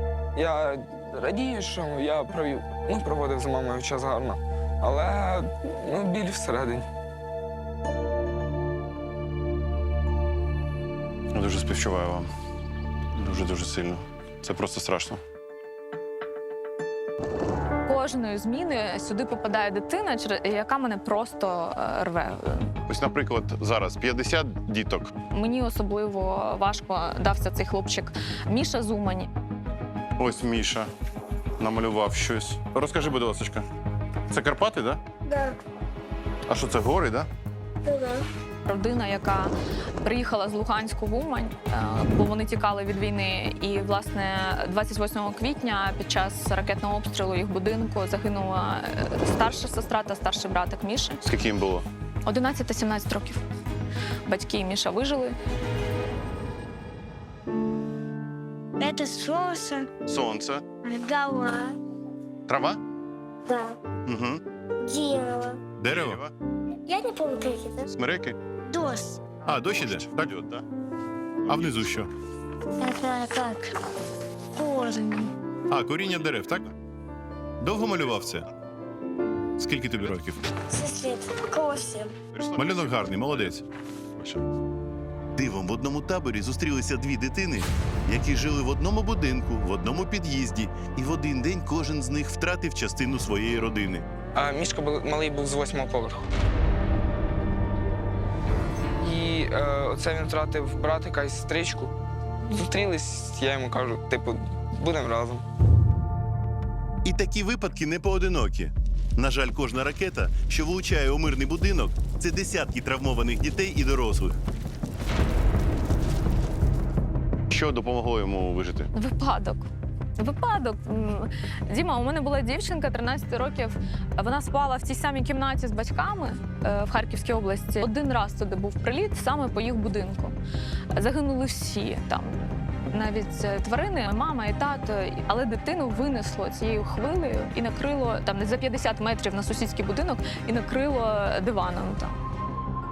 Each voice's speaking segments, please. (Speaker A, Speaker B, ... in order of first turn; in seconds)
Speaker A: 0.3-6.8, 94.3-96.2, 99.0-101.9, 102.5-105.4
Speaker B: 11.3-12.3, 13.1-15.2, 22.9-25.1, 30.2-30.9, 31.6-33.6, 34.3-35.0, 36.5-37.3, 51.2-51.8, 60.0-60.7, 62.5-62.8, 64.0-64.4, 66.0-66.3, 67.9-68.4, 70.2-70.6, 117.5-118.9
Speaker C: 17.9-22.7, 25.3-29.3, 38.6-51.2, 52.2-53.4, 54.3-55.4, 118.9-130.3, 130.9-142.2
Speaker D: 35.3-35.5, 37.9-38.2, 58.8-59.9, 60.8-61.8, 63.5-63.8, 64.8-65.6, 66.9-67.8, 68.7-69.2, 72.8-73.7, 74.5-75.3, 80.7-82.1
Speaker E: 65.8-66.2, 69.5-70.3, 71.5-72.1, 75.7-76.7, 77.6-78.5, 79.6-80.5, 82.5-83.6, 85.3-94.0, 107.0-114.4